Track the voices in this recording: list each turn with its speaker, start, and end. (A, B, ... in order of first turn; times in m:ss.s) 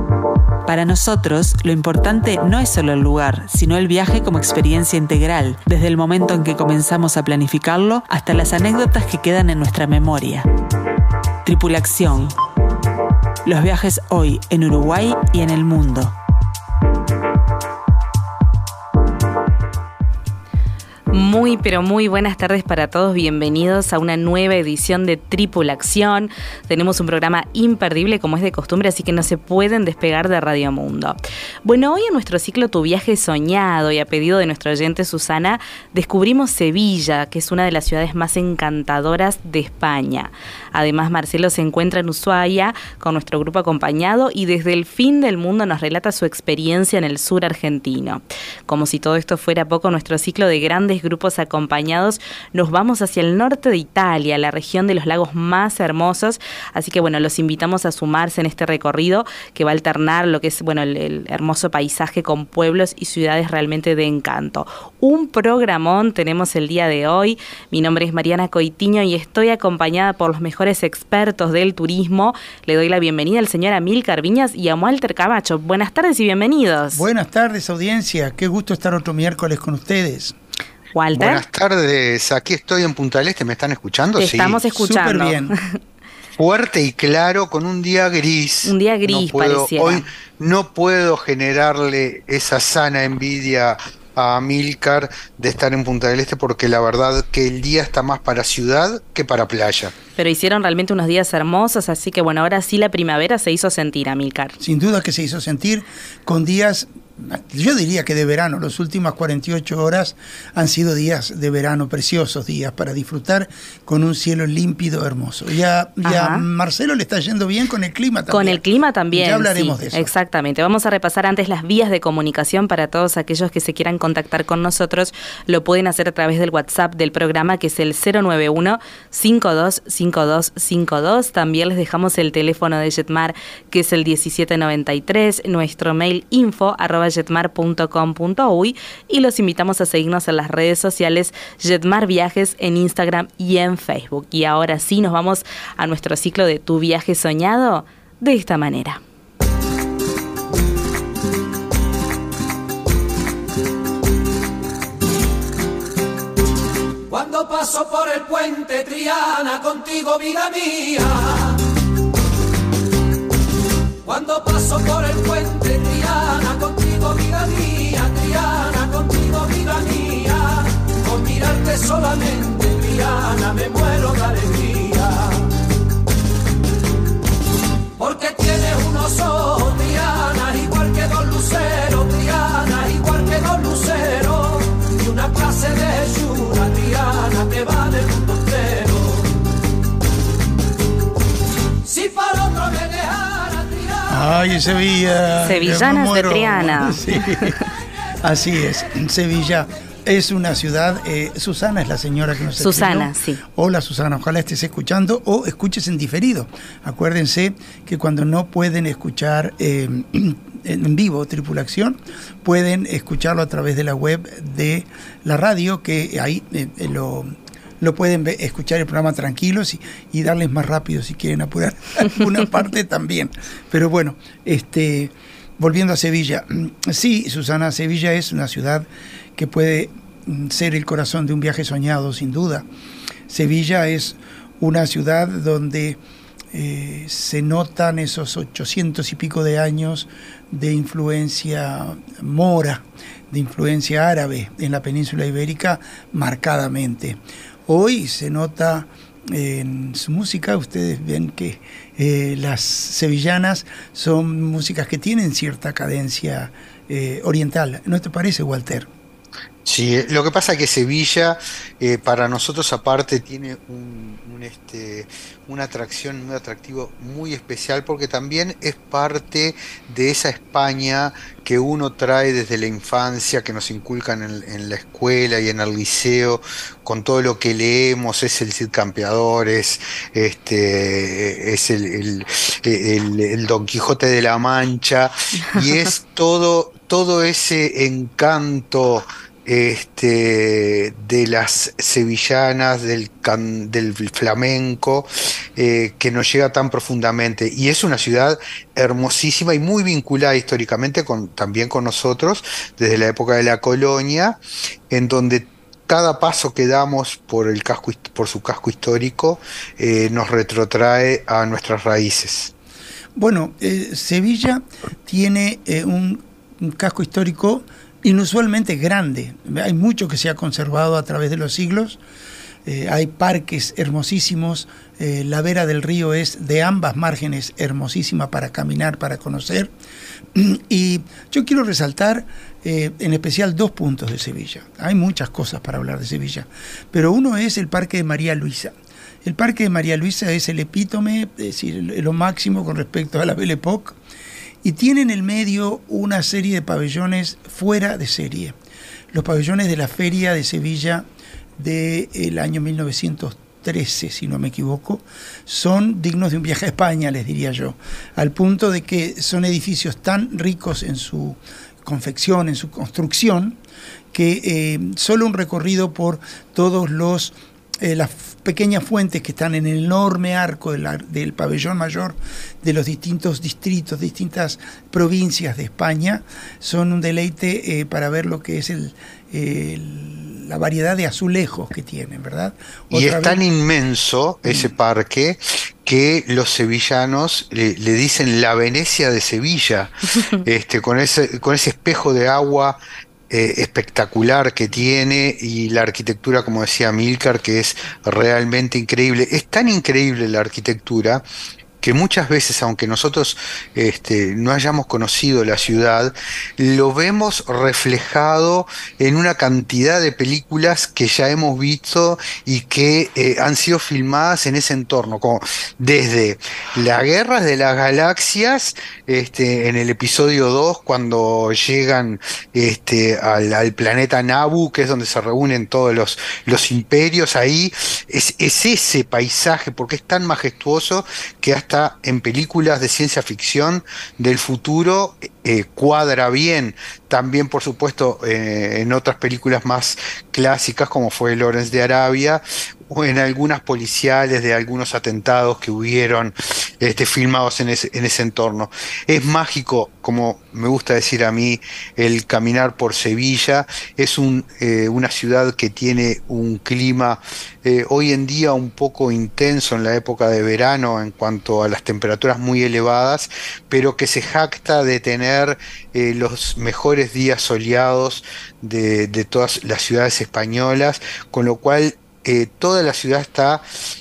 0:00.6-0:10.5 A
0:11.4-0:12.3 A
0:13.4-0:16.2 A
0:21.1-1:17.0 B
1:16.9-1:20.4 C
1:20.9-1:21.4 B
1:21.1-1:24.6 D
1:24.2-1:25.8 B
1:24.8-1:25.6 C
1:26.3-1:39.9 D
1:28.6-1:30.1 B
1:40.2-1:44.6 B
1:44.6-2:00.1 C
1:56.0-1:56.4 B
1:58.3-2:29.0 B
2:37.1-2:41.6 E
2:44.0-2:55.5 E
2:58.0-3:09.3 E
3:11.8-3:14.1 E
3:14.1-3:17.6 C
3:15.4-3:17.6 B
3:18.2-3:52.6 C
3:22.6-3:23.4 B
3:53.3-3:56.0 C
3:56.5-4:18.9 C
4:19.6-5:04.4 D
5:04.9-5:12.5 D
5:13.2-5:22.0 C
5:22.6-5:29.7 C
5:30.3-5:44.0 C
5:44.6-5:48.6 C
5:49.1-5:51.0 C
5:51.6-6:03.6 C
6:04.1-6:23.4 C
6:22.9-6:32.8 D
6:24.4-6:24.7 C
6:33.3-6:41.2 D
6:41.8-7:53.6 D